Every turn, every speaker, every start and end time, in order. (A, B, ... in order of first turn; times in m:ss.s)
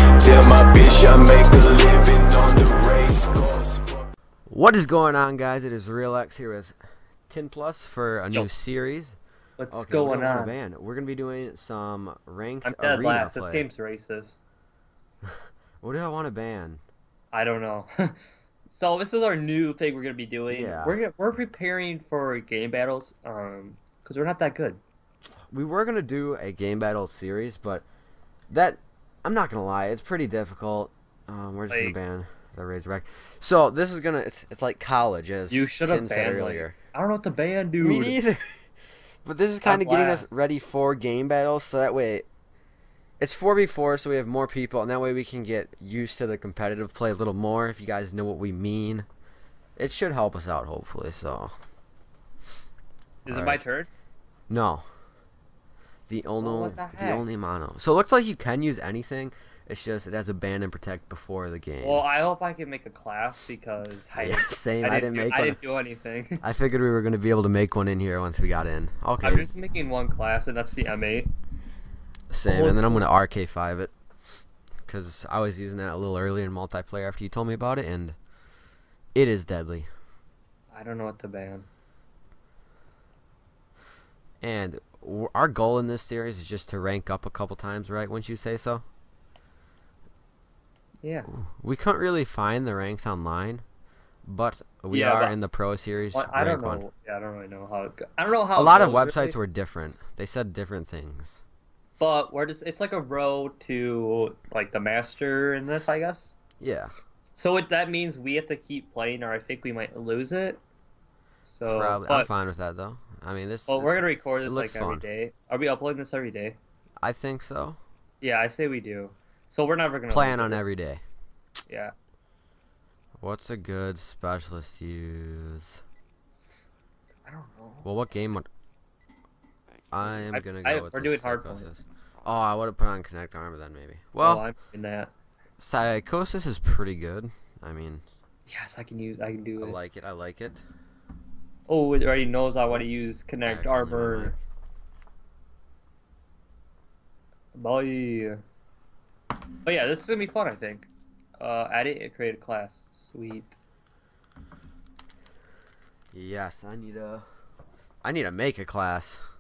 0:00.2-0:03.8 A
0:04.5-0:06.8 B
0:07.3-0:09.2 B
0:09.6-0:10.6 C
0:09.7-0:13.7 B
0:12.6-0:14.4 C
0:15.2-0:16.8 B
0:17.3-0:18.2 C
0:18.7-0:24.8 C
0:20.5-0:21.0 B
0:25.5-0:27.8 B
0:28.5-0:36.8 B
0:31.7-0:32.0 C
0:35.5-0:38.2 C
0:37.8-0:38.7 B
0:39.2-0:42.3 B
0:39.6-0:40.5 C
0:43.2-0:49.1 B
0:49.8-0:51.5 B
0:53.2-0:53.9 C
0:53.3-0:53.6 B
0:54.5-0:54.9 B
0:56.1-1:02.1 B
0:56.4-0:57.3 C
1:01.8-1:06.4 C
1:04.2-1:05.6 B
1:06.4-1:09.5 B
1:09.2-1:11.3 C
1:12.3-1:13.9 B
1:12.4-1:13.0 C
1:14.8-1:18.2 B
1:19.2-1:19.9 B
1:20.7-1:21.7 C
1:24.4-1:28.8 B
1:31.0-1:31.3 C
1:31.3-1:33.6 B
1:34.2-1:36.8 B
1:34.9-1:35.4 C
1:36.1-1:39.4 C
1:38.6-1:41.4 B
1:42.0-1:46.4 C
1:46.6-1:46.9 B
1:47.4-1:50.6 C
1:51.4-1:52.3 C
1:51.6-1:55.1 B
1:53.7-1:56.6 C
1:57.0-1:57.8 B
1:58.2-2:00.6 C
2:00.1-2:01.0 B
2:01.7-2:01.9 C
2:03.2-2:05.8 B
2:07.3-2:07.9 C
2:07.8-2:08.5 B
2:09.9-2:14.5 B
2:10.3-2:11.7 C
2:14.2-2:15.1 C
2:15.6-2:18.0 B
2:18.5-2:19.8 C
2:19.6-2:20.6 B
2:21.7-2:24.4 C
2:23.4-2:24.4 B
2:27.5-2:28.4 C
2:29.6-2:33.6 C
2:36.1-2:37.3 B
2:38.0-2:39.2 B